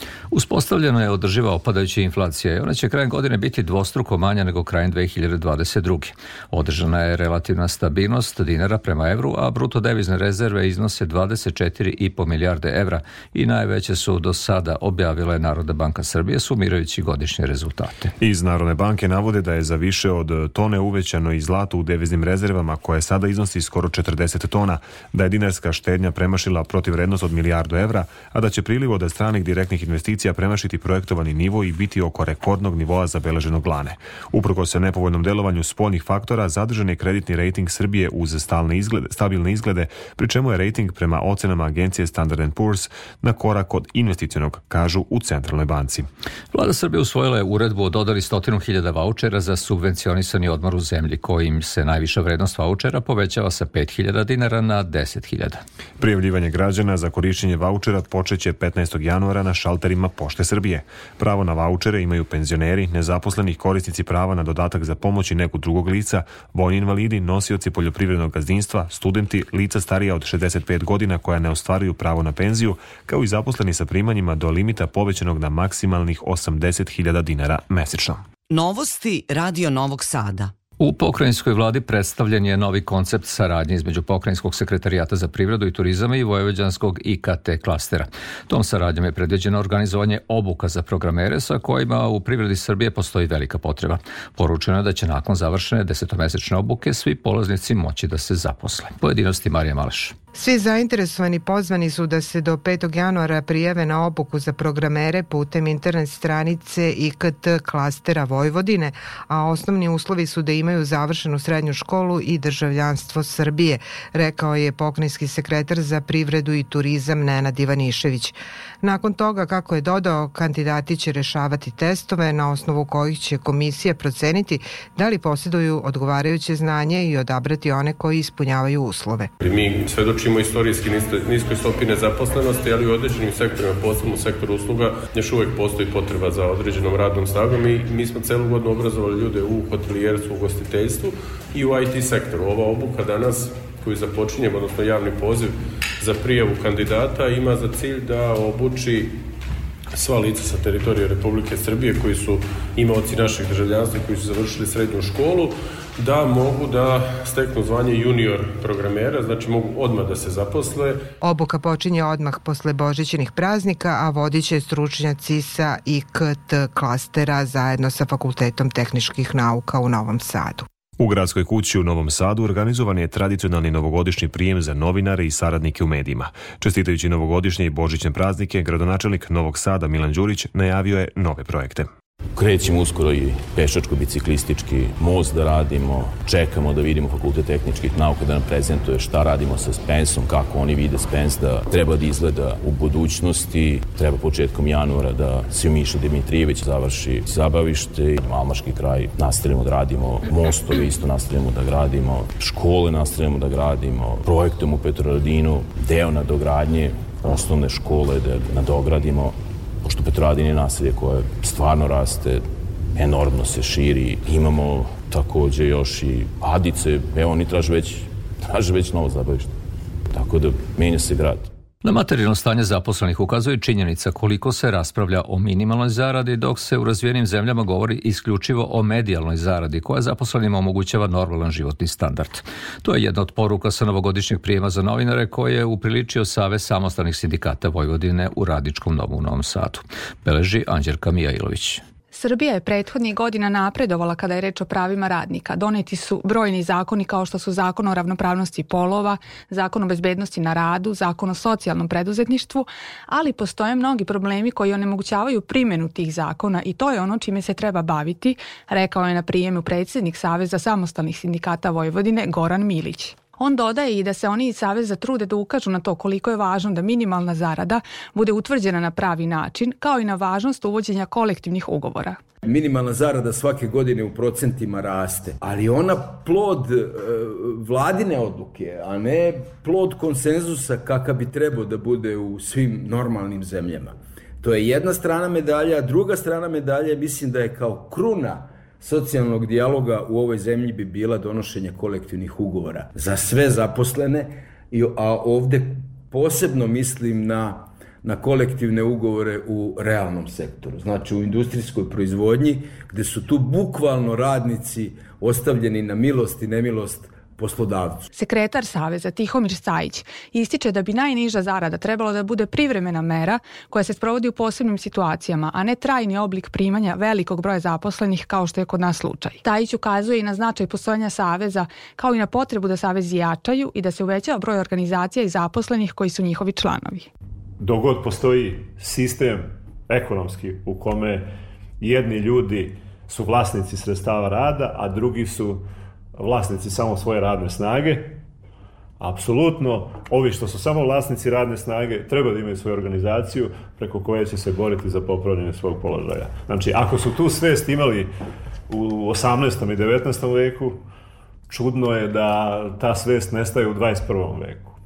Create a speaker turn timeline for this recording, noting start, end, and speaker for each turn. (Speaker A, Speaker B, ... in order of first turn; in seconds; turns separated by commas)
Speaker A: 0.3-18.1, Speaker B: 18.2-46.0, Speaker A: 46.5-55.6, Speaker B: 56.0-78.2, Speaker C: 78.5-80.5, Speaker A: 80.8-100.1, Speaker D: 100.3-129.3, Speaker E: 129.4-149.2, Speaker E: 149.9-161.0, Speaker D: 161.2-170.6, Speaker B: 171.0-181.8, Speaker F: 182.3-212.4, Speaker F: 212.9-219.6, Speaker F: 220.1-221.5, Speaker A: 221.8-241.8, Speaker G: 242.1-272.2, Speaker H: 272.5-308.1, Speaker G: 308.1-327.1, Speaker I: 327.6-331.3, Speaker I: 331.8-335.6, Speaker I: 336.2-338.2, Speaker I: 339.0-348.1, Speaker I: 348.7-350.8, Speaker I: 351.5-354.8